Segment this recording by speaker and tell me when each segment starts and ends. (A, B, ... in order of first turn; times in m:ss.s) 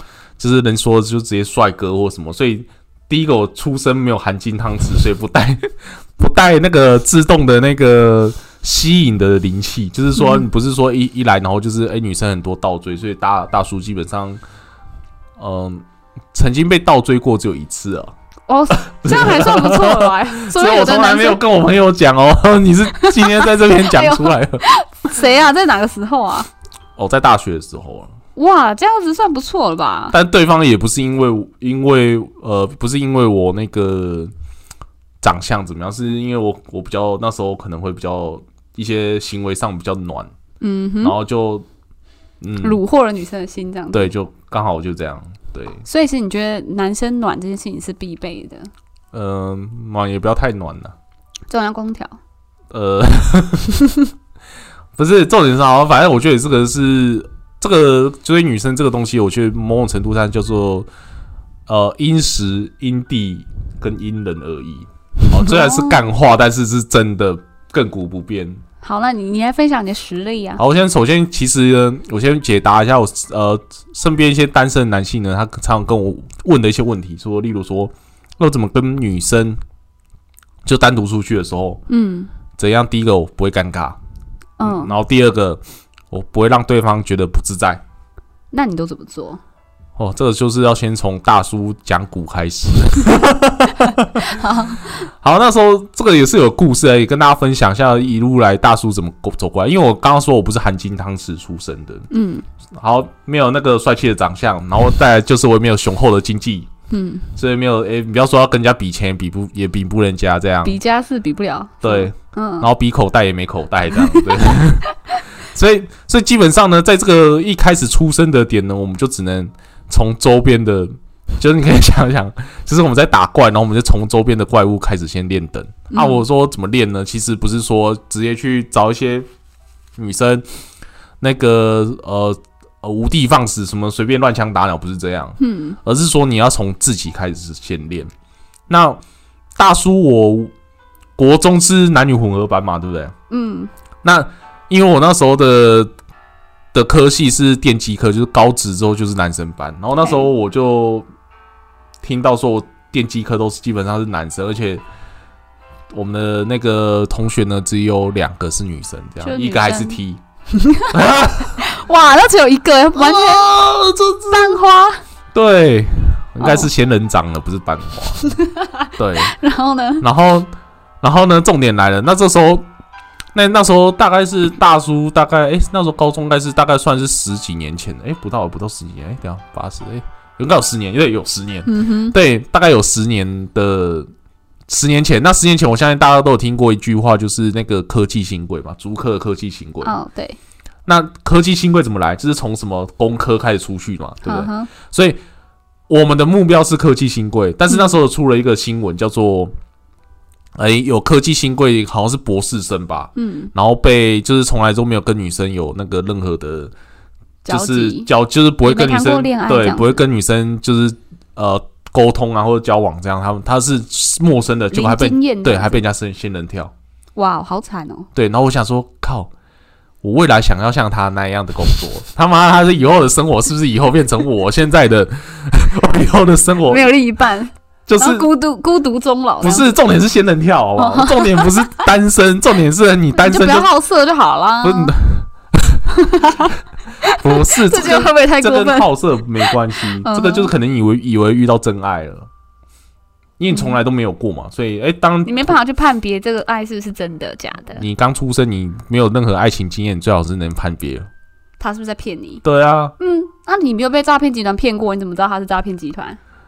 0:00.4-0:14.4 A
0:10.2-0:10.5 B
0:15.4-0:18.1 A
0:18.5-0:21.4 B
0:18.7-0:24.6 A
0:23.0-0:26.5 B
0:27.0-0:28.1 A
0:28.4-0:30.1 B
0:30.1-0:34.3 A
0:35.2-0:40.3 A
0:40.6-0:41.1 B
0:41.0-0:41.6 A
0:42.4-0:42.8 A
0:42.6-0:44.1 B
0:43.9-0:45.8 A
0:45.8-0:48.7 B
0:49.1-0:50.9 A
0:51.5-0:52.2 B
0:52.7-0:53.7 A
0:55.0-1:00.9 A
1:01.7-1:08.6 A
1:05.4-1:06.0 B
1:08.8-1:10.6 B
1:10.6-1:19.6 A
1:20.6-1:21.8 A
1:21.9-1:22.3 B
1:22.6-1:24.0 A
1:24.6-1:24.9 B
1:24.6-1:27.8 A
1:28.5-1:29.4 B
1:30.0-1:34.3 A
1:34.2-1:34.9 B
1:35.2-1:42.1 A
1:42.1-1:42.4 B
1:42.8-1:46.7 A
1:46.9-1:47.3 B
1:47.4-1:50.8 A
1:50.6-1:52.7 B
1:51.8-2:09.3 A
1:54.0-1:54.6 B
2:05.9-2:06.2 B
2:10.0-2:10.4 A
2:11.2-2:18.1 A
2:15.4-2:15.8 B
2:18.7-2:19.0 A
2:19.6-2:20.5 A
2:21.2-2:23.1 A
2:23.3-2:23.7 B
2:24.0-2:25.9 A
2:26.7-2:31.0 A
2:30.0-2:30.3 B
2:32.0-2:34.8 A
2:35.9-2:40.2 A
2:39.2-2:40.0 B
2:40.5-2:40.9 B
2:40.9-2:41.6 A
2:41.6-2:43.4 B
2:42.9-2:44.6 A
2:44.3-2:45.0 B
2:45.3-2:48.3 A
2:46.4-2:46.7 B
2:48.2-2:50.0 B
2:49.0-2:49.3 A
2:50.0-2:50.5 A
2:51.0-2:52.6 A
2:53.3-3:04.1 A
3:01.6-3:02.2 B
3:04.7-3:09.9 A
3:09.8-3:10.4 B
3:10.8-3:15.2 A
3:14.2-3:14.7 B
3:15.9-3:19.5 A
3:17.7-3:17.9 B
3:20.6-3:26.7 A
3:23.2-3:23.5 B
3:27.4-3:28.1 B
3:27.5-3:36.7 A
3:28.6-3:30.0 B
3:34.7-3:35.8 B
3:37.2-3:38.1 B
3:38.1-3:39.3 A
3:40.0-3:46.9 A
3:46.6-3:49.7 B
3:47.9-3:48.3 A
3:49.4-3:53.7 A
3:50.8-3:51.7 B
3:53.1-3:54.9 B
3:54.6-3:55.8 A
3:55.9-3:58.9 B
3:57.1-4:02.3 A
3:59.4-4:00.5 B
4:03.4-4:05.6 A
4:03.5-4:03.8 B
4:05.2-4:07.8 B
4:07.8-4:11.1 A
4:11.6-4:12.4 B
4:12.4-4:12.9 A
4:13.0-4:16.2 B